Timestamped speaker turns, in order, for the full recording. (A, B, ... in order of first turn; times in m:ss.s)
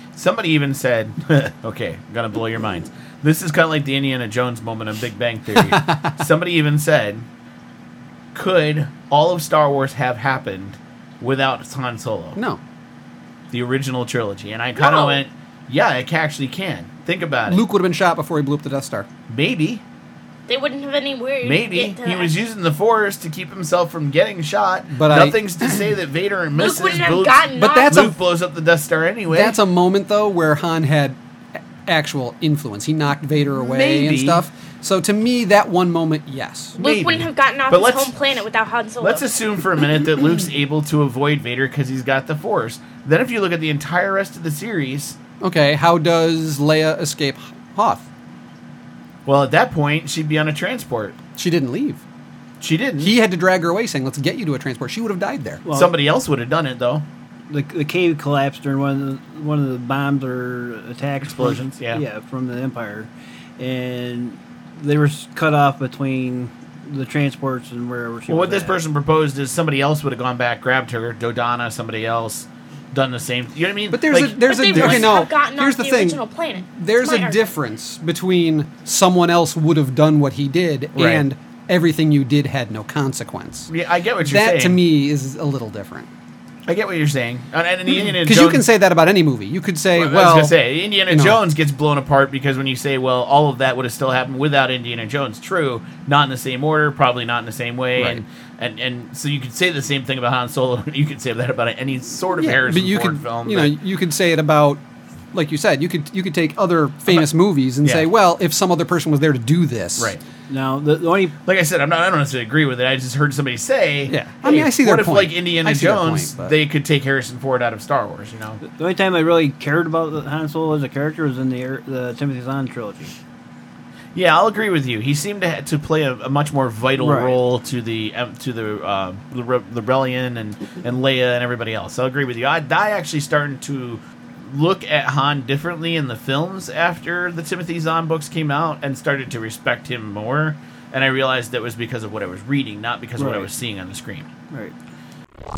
0:00.2-0:07.3 A
0:05.7-0:06.2 B
0:08.3-0:12.4 A
0:13.5-0:17.6 A
0:14.8-0:15.2 C
0:17.5-0:19.1 B
0:19.3-0:19.8 A
0:20.5-0:22.4 C
0:21.4-0:29.6 A
0:24.9-0:25.9 B
0:26.6-0:28.1 C
0:27.6-0:28.1 B
0:29.3-0:31.2 B
0:31.8-0:36.8 B
0:33.6-0:34.4 A
0:36.8-0:39.3 C
0:36.8-0:38.4 A
0:39.0-0:45.2 A
0:45.4-0:48.1 B
0:49.3-0:51.2 A
0:51.4-0:52.0 B
0:52.6-0:53.2 A
0:53.0-0:55.6 B
0:55.6-0:55.9 D
0:55.7-0:57.1 A
0:57.5-1:08.8 D
1:01.2-1:02.0 A
1:08.3-1:15.2 A
1:13.9-1:23.7 B
1:14.4-1:17.5 C
1:21.0-1:21.2 A
1:23.7-1:24.8 A
1:24.2-1:26.1 B
1:26.7-1:28.7 A
1:27.9-1:30.6 B
1:30.0-1:43.8 A
1:31.1-1:31.4 B
1:38.0-1:38.2 B
1:42.4-1:44.8 B
1:45.3-1:50.2 B
1:47.8-1:48.1 A
1:50.5-1:51.4 D
1:51.5-1:58.6 A
1:54.1-1:56.5 B
1:58.7-2:03.1 D
2:04.1-2:24.3 A
2:07.0-2:07.4 D
2:23.2-2:23.5 D